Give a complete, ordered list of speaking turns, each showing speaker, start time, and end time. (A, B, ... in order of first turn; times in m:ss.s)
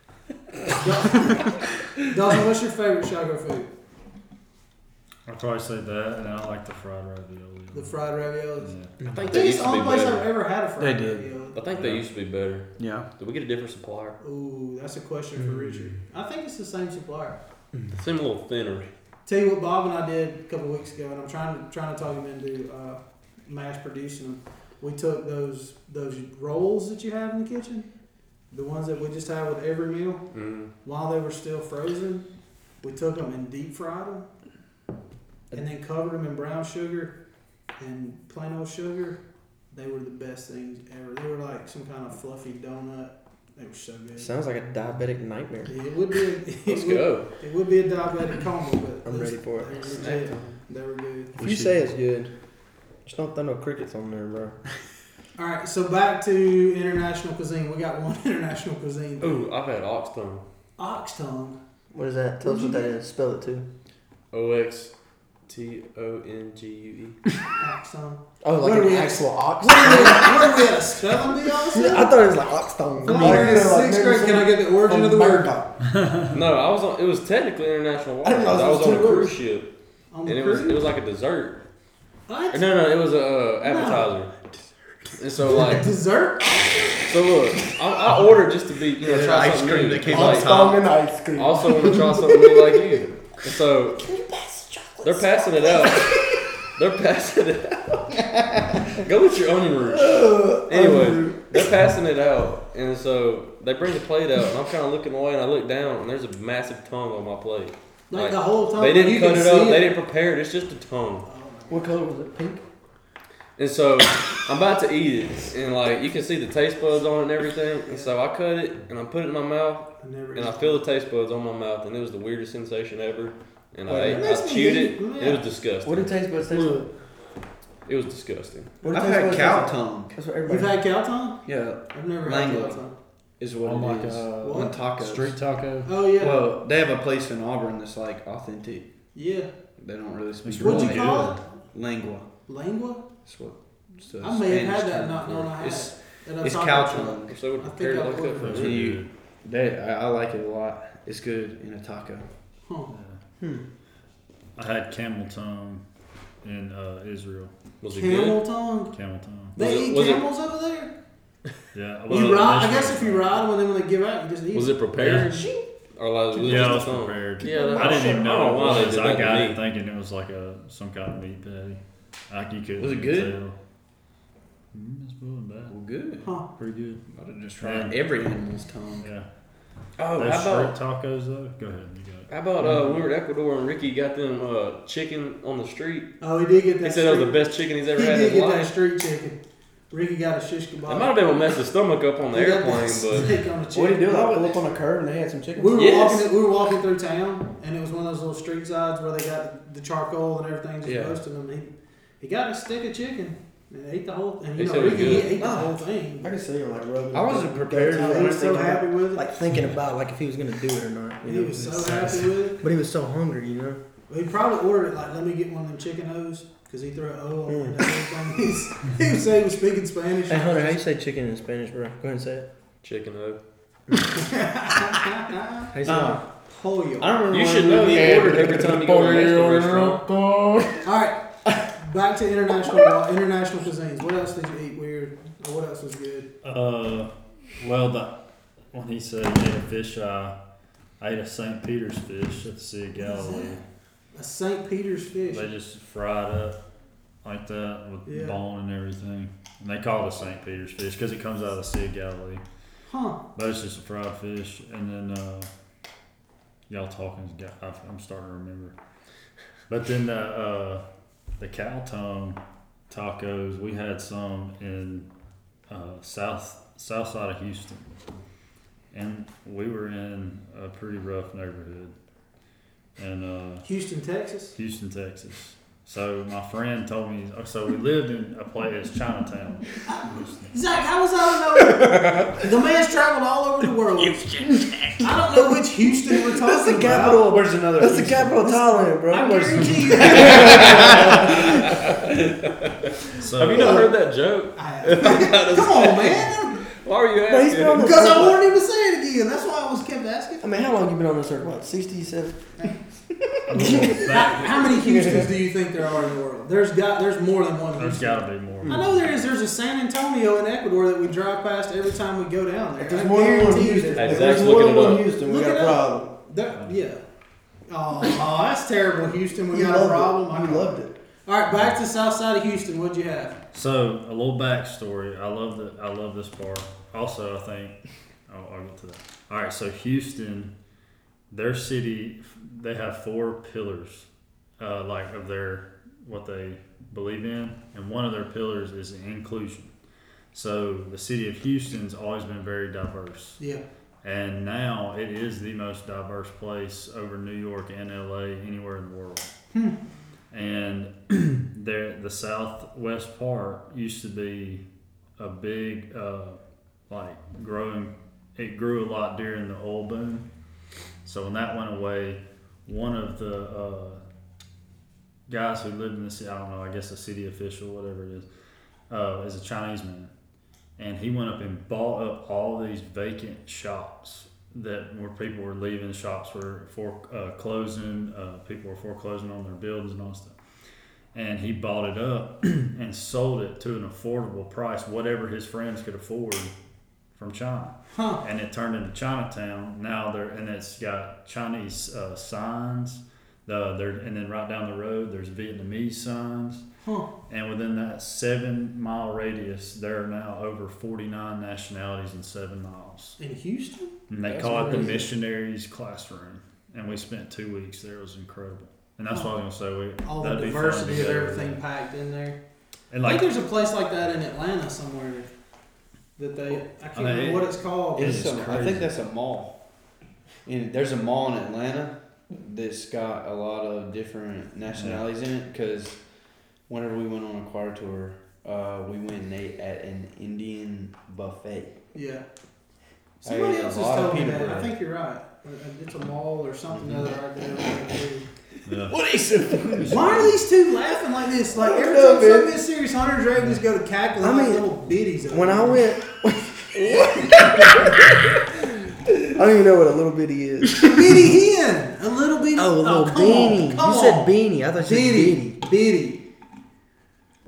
0:00.8-0:03.7 A
0:05.3-0:09.0 B
0:07.7-0:08.7 A
0:09.1-0:10.3 C
0:09.3-0:11.6 A
0:10.8-0:11.3 D
0:11.6-0:14.2 C
0:11.7-0:12.0 B
0:12.8-0:13.1 D
0:14.2-0:17.4 A
0:17.9-0:18.9 C
0:19.3-0:27.9 A
0:28.5-0:30.3 A
0:30.3-0:30.7 C
0:30.8-0:32.2 A
0:32.8-0:34.3 A
0:35.5-0:37.2 A
0:37.8-0:39.2 A
0:39.7-0:44.3 A
0:44.2-0:45.7 E
0:45.7-0:51.4 A
0:46.7-0:47.3 C
0:49.0-0:50.4 E
0:49.9-0:50.5 C
0:51.4-0:52.0 D
0:51.4-0:52.3 E
0:53.0-0:54.6 E
0:55.4-0:59.5 A
0:59.2-1:00.4 C
1:00.8-1:01.6 A
1:01.9-1:03.7 E
1:02.4-1:02.9 A
1:04.3-1:04.9 C
1:05.5-1:07.2 C
1:07.6-1:12.2 A
1:08.4-1:10.7 E
1:11.7-1:15.7 E
1:13.0-1:15.5 A
1:15.9-1:16.4 B
1:16.3-1:19.7 C
1:18.2-1:19.3 E
1:18.8-1:19.3 A
1:20.1-1:20.8 A
1:20.3-1:21.6 C
1:22.3-1:22.7 A
1:22.5-1:24.3 C
1:23.6-1:24.1 A
1:25.2-1:25.9 C
1:25.5-1:26.9 A
1:27.0-1:30.7 C
1:29.0-1:30.8 D
1:30.1-1:33.0 E
1:31.4-1:34.1 C
1:34.0-1:36.3 E
1:35.0-1:38.2 C
1:38.9-1:51.3 C
1:39.9-1:41.6 E
1:48.1-1:49.9 A
1:51.2-1:51.9 A
1:51.7-1:52.6 E
1:53.6-2:06.9 C
2:00.0-2:00.8 A
2:03.9-2:04.3 E
2:04.0-2:05.4 A
2:05.8-2:06.9 E
2:07.9-2:08.7 C
2:08.8-2:10.8 E
2:08.9-2:10.2 D
2:10.5-2:12.9 A
2:11.4-2:12.8 D
2:13.4-2:15.4 D
2:13.6-2:16.0 B
2:14.4-2:14.8 A
2:15.8-2:16.5 A
2:16.1-2:18.9 D
2:19.1-2:19.5 A
2:19.8-2:22.3 D
2:20.4-2:21.4 B
2:20.6-2:21.4 A
2:22.5-2:23.0 A
2:23.2-2:27.4 D
2:24.2-2:28.7 A
2:27.3-2:28.9 C
2:28.4-2:29.1 B
2:28.5-2:32.3 D
2:32.7-2:32.9 A
2:32.9-2:33.2 B
2:33.4-2:33.6 E
2:34.6-2:35.8 B
2:36.4-2:37.5 B
2:37.8-2:38.4 C
2:37.9-2:38.9 A
2:38.9-2:39.6 B
2:39.6-2:40.9 A
2:39.6-2:40.2 C
2:41.7-2:43.4 B
2:42.1-2:45.7 A
2:44.5-2:49.6 C
2:46.3-2:46.9 A
2:46.4-2:53.6 B
2:47.4-2:48.2 A
2:52.8-2:53.4 D
2:54.7-2:55.8 B
2:55.7-2:56.3 D
2:56.2-2:56.5 A
2:56.5-2:57.0 B
2:57.1-2:59.1 D
2:57.6-2:58.0 B
2:59.0-2:59.3 B
3:00.0-3:00.8 C
3:00.1-3:02.3 B
3:02.3-3:06.2 C
3:06.2-3:07.4 A
3:06.8-3:08.7 C
3:07.9-3:09.4 A
3:09.9-3:11.2 A
3:10.9-3:13.4 C
3:12.3-3:14.4 A
3:13.7-3:15.9 E
3:14.1-3:14.4 D
3:15.6-3:26.3 A
3:15.8-3:16.2 C
3:20.8-3:21.2 D
3:24.6-3:25.4 C
3:25.3-3:25.7 D
3:26.2-3:32.0 E
3:27.1-3:28.8 D
3:27.9-3:29.3 A
3:31.2-3:32.6 A
3:31.6-3:32.4 B
3:32.6-3:33.8 E
3:34.1-3:40.8 A
3:37.5-3:37.9 E
3:40.3-3:42.5 E
3:42.8-3:43.4 C
3:44.1-3:47.1 A
3:45.7-3:46.2 E
3:45.8-3:46.2 D
3:47.0-3:50.7 D
3:47.3-3:50.0 C
3:50.8-3:56.3 A
3:56.4-3:58.2 B
3:58.7-4:00.4 B
4:01.0-4:03.6 B
4:03.0-4:03.6 A
4:04.2-4:05.5 A
4:05.3-4:06.6 B
4:07.2-4:12.4 B
4:08.1-4:08.4 A
4:12.9-4:13.2 A
4:13.4-4:15.5 B
4:16.7-4:18.8 B
4:19.7-4:20.8 B
4:21.4-4:25.1 B
4:25.7-4:27.9 B
4:28.9-4:31.9 B
4:33.0-4:33.7 B
4:33.6-4:34.6 A
4:34.6-4:40.5 B
4:39.8-4:47.3 A
4:46.4-4:51.4 E
4:47.0-4:48.5 D
4:48.4-4:51.3 A
4:50.0-4:51.3 D
4:52.3-4:52.7 C
4:53.2-4:53.9 B
4:53.4-4:57.8 C
4:54.6-4:56.6 A
4:57.3-4:58.4 E
4:57.8-5:00.5 A
5:00.4-5:02.5 E
5:03.5-5:04.7 B
5:03.5-5:05.3 E
5:03.7-5:14.6 A
5:07.8-5:09.1 B
5:12.8-5:16.1 E
5:14.0-5:15.0 C
5:15.2-5:17.0 A
5:17.7-5:23.4 A
5:19.5-5:20.9 E
5:23.5-5:30.5 B
5:31.3-5:34.1 B
5:34.6-5:39.7 B
5:40.3-5:43.4 B
5:44.0-5:49.3 B
5:50.3-5:54.6 B
5:55.2-6:00.3 B
6:01.0-6:04.0 B
6:05.3-6:08.3 B
6:08.9-6:10.1 B
6:10.8-6:20.4 B
6:21.1-6:26.5 B
6:27.2-6:36.6 B
6:27.9-6:28.2 A
6:36.8-6:37.1 A
6:37.3-6:43.2 B
6:43.2-6:44.0 A
6:44.1-6:51.6 B
6:44.2-6:45.1 D
6:44.6-6:45.0 A
6:50.0-6:52.4 A
6:52.9-6:53.3 B
6:53.0-6:55.3 A
6:56.2-6:58.3 A
6:57.0-6:58.9 B
6:58.0-6:59.6 D
7:00.4-7:06.0 D
7:04.7-7:05.0 B
7:06.7-7:11.8 D
7:11.9-7:12.2 A
7:13.2-7:18.3 A
7:13.2-7:14.7 D
7:16.8-7:17.1 D
7:18.6-7:19.0 B
7:18.9-7:20.0 D
7:19.6-7:20.4 B
7:19.8-7:25.8 A
7:21.6-7:22.6 E
7:24.2-7:24.7 E
7:25.3-7:27.8 E
7:29.2-7:31.0 E
7:30.8-7:36.2 A
7:32.6-7:35.6 E